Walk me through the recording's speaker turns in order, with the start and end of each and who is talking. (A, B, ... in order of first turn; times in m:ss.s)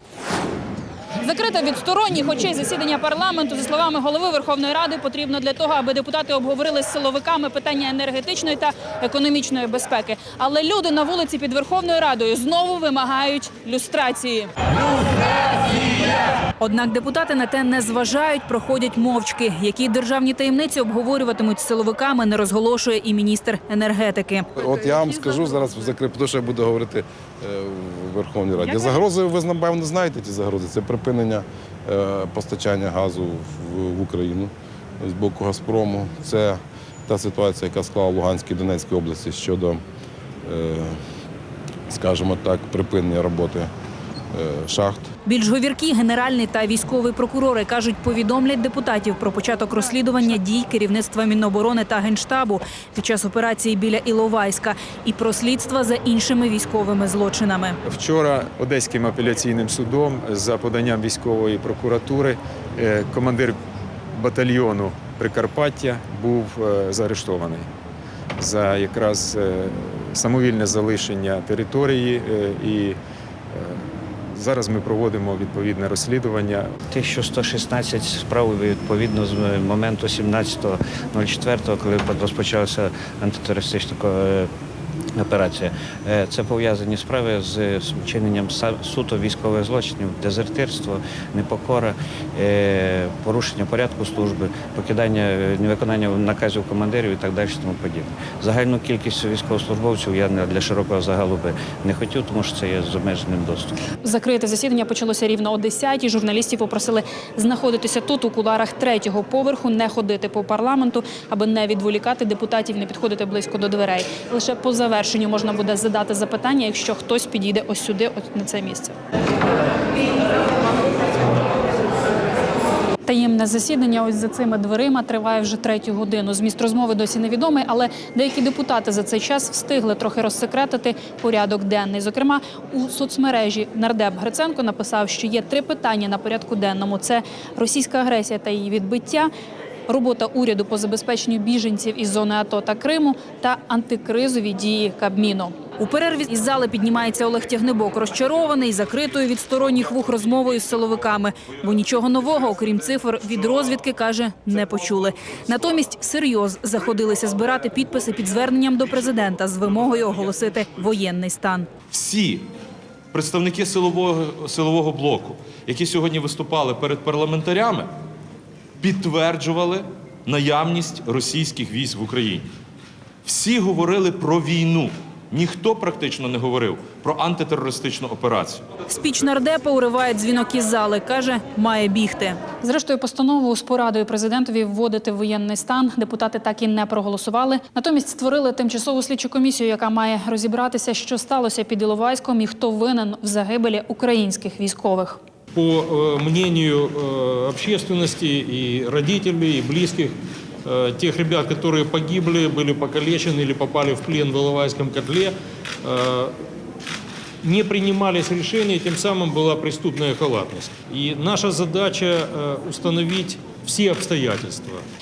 0:01.2-0:14.5 A
0:16.6-0:24.5 A
0:24.6-0:39.8 B
0:40.4-0:41.0 B
0:41.9-0:43.7 B
0:44.3-0:45.0 B
0:45.2-0:57.8 A
0:57.8-1:03.6 C
1:04.1-1:07.7 C
1:08.4-1:13.0 C
1:13.5-1:16.7 C
1:16.9-1:24.5 D
1:25.2-1:43.7 D
1:44.0-1:59.0 A
2:03.0-2:19.3 A
2:19.9-2:41.7 A
2:41.9-2:42.4 E
2:43.1-2:47.9 E
2:48.8-2:52.5 E
2:53.2-2:58.6 E
2:58.9-3:15.2 A
3:15.5-3:26.3 F
3:27.4-3:34.8 F